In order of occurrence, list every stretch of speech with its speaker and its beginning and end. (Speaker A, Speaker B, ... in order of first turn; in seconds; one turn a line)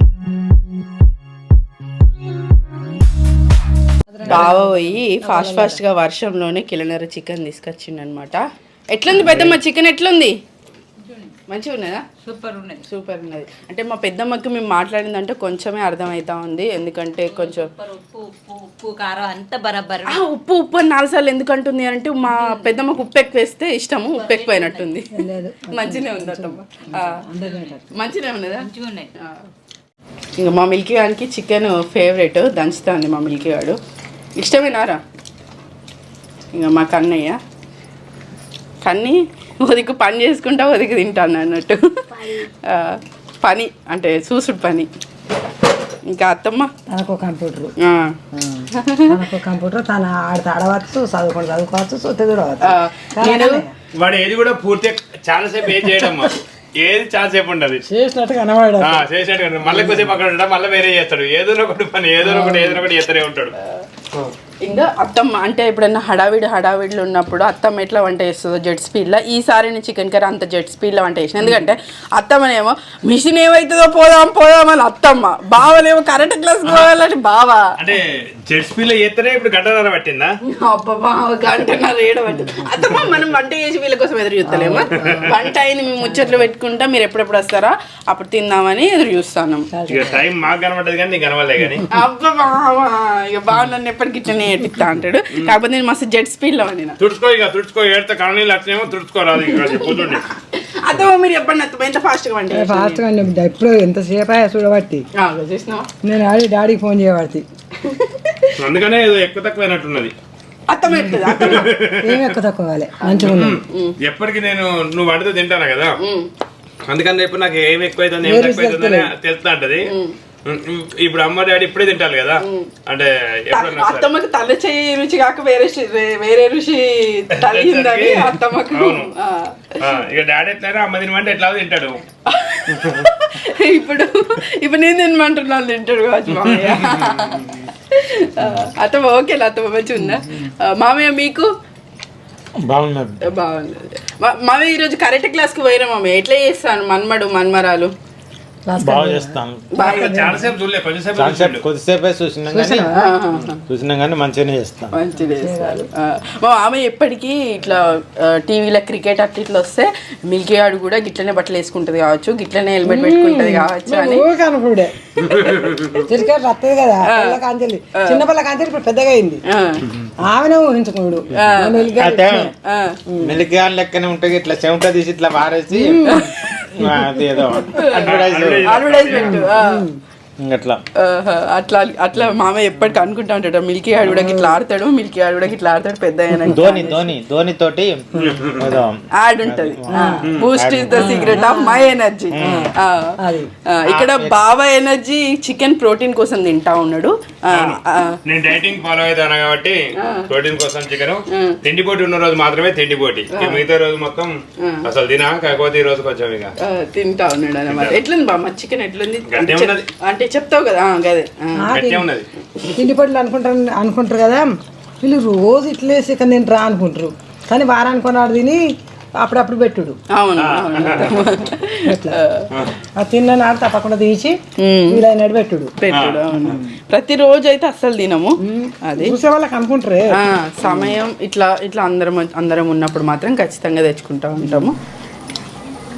Speaker A: 4.1-5.8
Speaker B: 4.3-10.3
Speaker C: 9.1-9.6
Speaker B: 11.5-12.1
Speaker D: 12.2-12.8
Speaker B: 12.8-17.7
Speaker D: 17.3-20.2
Speaker B: 20.1-27.2
Speaker D: 22.2-22.8
Speaker D: 24.1-24.9
Speaker A: 25.1-27.9
Speaker D: 27.4-27.8
Speaker B: 27.9-28.7
Speaker D: 28.5-29.1
Speaker B: 30.4-33.8
Speaker B: 34.4-35.0
Speaker B: 36.5-37.4
Speaker B: 38.8-44.9
Speaker B: 46.1-46.7
Speaker A: 46.9-47.7
Speaker B: 47.8-48.2
Speaker A: 48.3-53.7
Speaker B: 48.8-49.1
Speaker B: 52.6-53.6
Speaker C: 54.0-57.8
Speaker A: 55.7-56.3
Speaker A: 57.9-59.0
Speaker C: 58.8-63.5
Speaker A: 62.2-62.7
Speaker B: 62.3-62.8
Speaker B: 64.6-77.7
Speaker C: 77.8-80.3
Speaker B: 80.5-89.7
Speaker A: 82.3-83.1
Speaker A: 84.5-85.4
Speaker C: 84.9-85.4
Speaker A: 86.0-86.5
Speaker A: 89.7-90.2
Speaker C: 89.9-91.9
Speaker B: 91.9-97.0
Speaker C: 97.0-100.2
Speaker B: 99.5-103.0
Speaker A: 102.5-105.0
Speaker B: 105.2-105.9
Speaker A: 106.0-107.5
Speaker B: 107.8-108.5
Speaker C: 108.6-110.1
Speaker B: 110.7-111.7
Speaker A: 110.9-111.2
Speaker C: 111.2-112.3
Speaker A: 112.0-113.6
Speaker B: 113.0-114.0
Speaker C: 113.2-116.0
Speaker B: 116.0-116.3
Speaker C: 116.9-119.9
Speaker A: 118.2-119.1
Speaker B: 119.9-120.2
Speaker C: 120.5-124.1
Speaker B: 122.4-122.7
Speaker B: 123.5-130.0
Speaker C: 127.3-129.1
Speaker C: 129.8-132.0
Speaker B: 132.3-141.5
Speaker C: 132.7-133.1
Speaker C: 136.4-137.5
Speaker E: 142.6-143.2
Speaker B: 143.2-147.9
Speaker A: 148.7-149.4
Speaker E: 148.8-149.7
Speaker B: 149.7-150.4
Speaker C: 149.8-151.6
Speaker E: 151.2-152.9
Speaker A: 152.5-153.1
Speaker B: 152.9-153.6
Speaker E: 153.7-154.9
Speaker B: 154.9-164.3
Speaker A: 155.2-155.9
Speaker A: 162.8-164.9
Speaker B: 165.2-166.2
Speaker C: 165.2-165.9
Speaker A: 166.1-169.4
Speaker B: 167.1-167.4
Speaker B: 168.0-168.2
Speaker B: 169.5-169.8
Speaker A: 170.2-172.5
Speaker B: 171.3-171.9
Speaker E: 171.9-172.5
Speaker B: 172.6-173.0
Speaker A: 173.1-173.4
Speaker E: 173.2-176.2
Speaker A: 175.7-176.3
Speaker B: 176.1-176.7
Speaker E: 176.7-178.7
Speaker A: 177.2-177.8
Speaker B: 177.6-179.8
Speaker C: 178.0-179.5
Speaker A: 179.1-180.0
Speaker E: 180.4-180.8
Speaker B: 181.0-186.9
Speaker A: 184.0-184.6
Speaker A: 186.3-187.2
Speaker E: 186.4-191.5
Speaker C: 188.2-188.8
Speaker B: 189.2-193.2
Speaker A: 189.9-190.3
Speaker C: 190.2-190.5
Speaker A: 190.9-193.5
Speaker E: 192.3-192.7
Speaker B: 193.7-198.2
Speaker E: 193.8-194.4
Speaker C: 197.5-206.5
Speaker B: 200.0-200.3
Speaker B: 201.3-201.6
Speaker B: 203.3-203.6
Speaker B: 206.6-211.7
Speaker C: 207.7-208.0
Speaker C: 209.3-209.9
Speaker A: 211.6-212.1
Speaker C: 211.7-212.3
Speaker A: 212.7-214.5
Speaker A: 215.0-218.6
Speaker A: 219.2-220.0
Speaker B: 220.1-222.5
Speaker C: 220.4-221.4
Speaker A: 221.0-221.3
Speaker A: 221.8-222.2
Speaker A: 223.0-224.4
Speaker B: 224.6-225.0
Speaker A: 224.9-225.7
Speaker B: 225.8-229.2
Speaker C: 225.9-226.6
Speaker A: 226.4-226.8
Speaker A: 228.4-230.2
Speaker B: 230.2-234.8
Speaker A: 234.4-234.7